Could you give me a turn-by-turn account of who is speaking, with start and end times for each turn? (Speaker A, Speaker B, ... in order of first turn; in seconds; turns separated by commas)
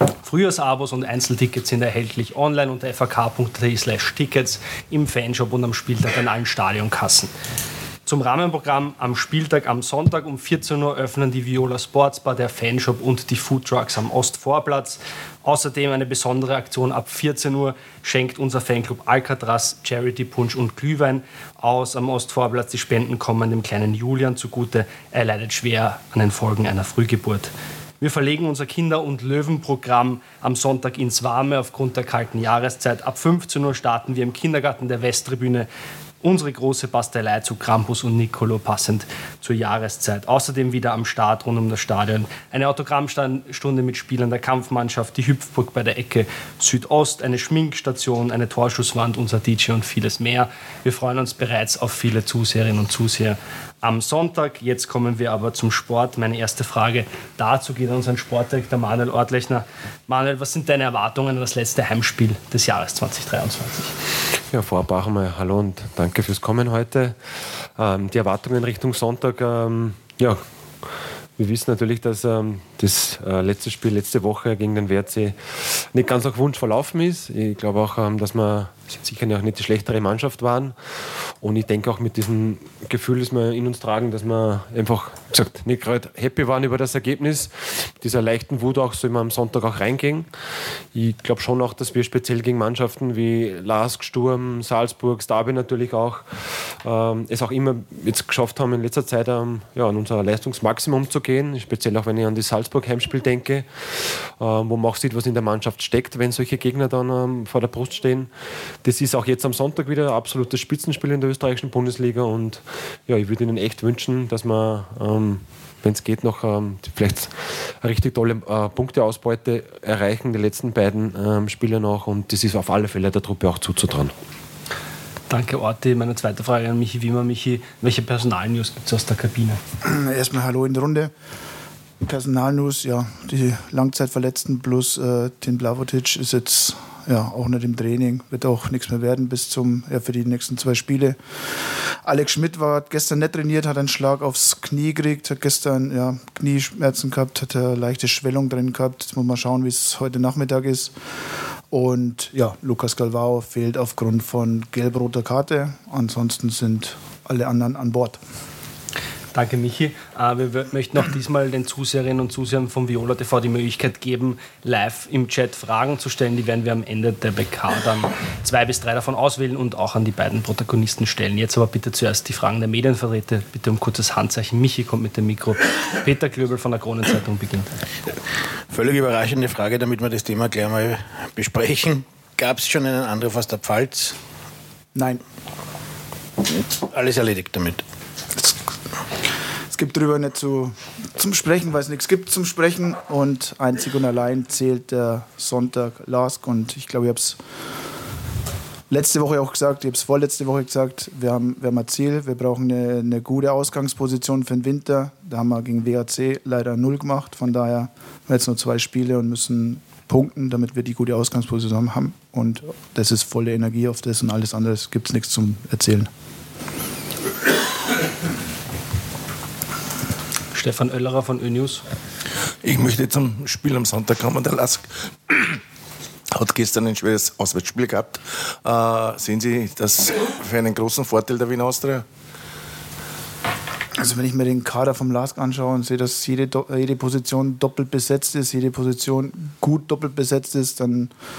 Speaker A: 0.2-7.3, Speaker A: 8.1-35.7, Speaker A: 36.2-63.9, Speaker B: 64.5-67.2, Speaker B: 67.8-70.4, Speaker B: 71.4-80.8, Speaker B: 81.4-90.3, Speaker B: 90.9-103.7, Speaker B: 104.3-108.3, Speaker B: 108.8-124.1, Speaker A: 125.3-129.6, Speaker C: 129.8-131.1, Speaker C: 132.0-141.2, Speaker C: 142.0-150.9, Speaker C: 151.7-158.2, Speaker A: 159.3-177.7, Speaker D: 178.7-184.2, Speaker C: 184.9-185.2, Speaker D: 186.8-187.8, Speaker C: 189.7-197.4, Speaker C: 198.9-216.1, Speaker A: 220.5-221.8, Speaker E: 222.6-225.6, Speaker E: 226.3-232.0, Speaker C: 234.0-241.1